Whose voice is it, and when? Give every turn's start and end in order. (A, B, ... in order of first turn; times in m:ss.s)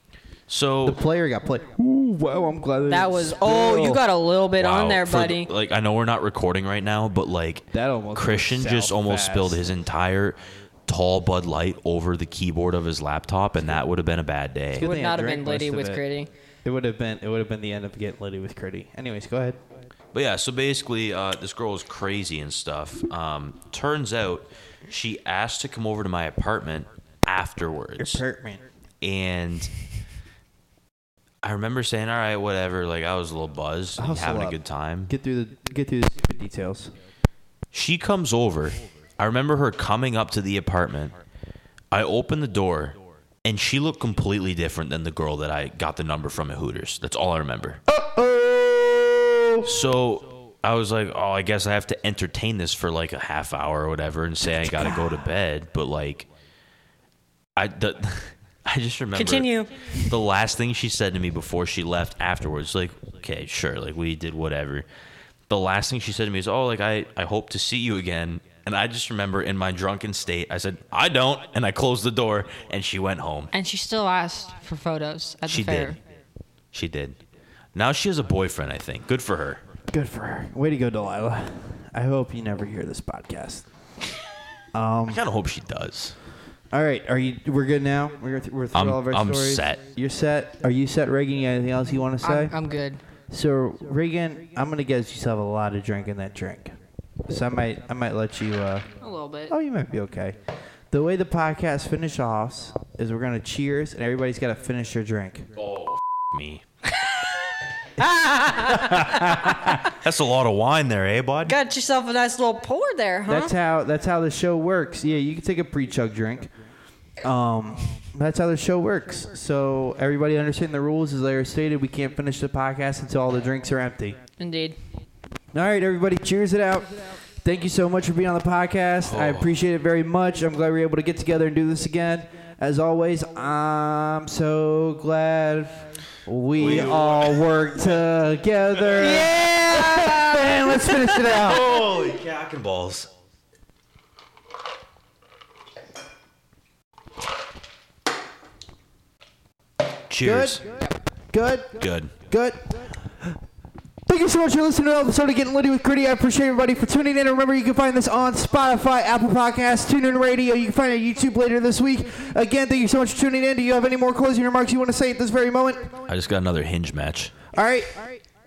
0:00.5-0:01.0 A
0:00.8-0:04.0 B
0:02.9-0:05.5 C
0:04.6-0:14.9 A
0:07.7-0:09.6 B
0:14.7-0:16.0 B
0:14.8-0:16.3 C
0:16.6-0:19.6 B
0:20.1-0:28.2 A
0:28.0-0:28.6 B
0:29.0-0:29.7 A
0:31.4-0:35.1 A
0:34.0-0:36.9 B
0:37.7-0:41.2 A
0:41.9-0:47.8 A
0:47.9-0:49.7 B
0:49.6-0:56.3 A
0:57.6-1:04.9 A
0:59.2-1:00.1 C
1:05.5-1:13.5 A
1:13.5-1:16.0 C
1:15.5-1:16.0 A
1:16.7-1:17.2 A
1:17.8-1:19.6 A
1:19.9-1:23.7 B
1:24.7-1:25.2 B
1:25.1-1:26.2 A
1:26.7-1:32.5 B
1:28.7-1:29.8 A
1:32.2-1:33.0 C
1:33.3-1:36.8 B
1:37.3-1:38.9 B
1:39.0-1:39.5 C
1:39.5-1:40.4 B
1:40.9-1:45.5 B
1:45.6-1:46.6 A
1:48.0-1:49.2 C
1:48.7-1:49.8 B
1:49.2-1:51.6 A
1:51.5-1:53.5 C
1:53.3-1:56.5 B
1:57.2-2:04.2 B
2:04.4-2:04.8 C
2:05.5-2:21.7 B
2:09.0-2:09.5 A
2:16.6-2:17.4 A
2:19.0-2:21.3 C
2:21.2-2:23.1 A
2:30.1-2:30.6 A
2:30.2-2:32.9 B
2:31.8-2:32.1 A
2:34.1-2:45.9 B
2:46.1-2:47.3 A
2:47.5-2:48.2 B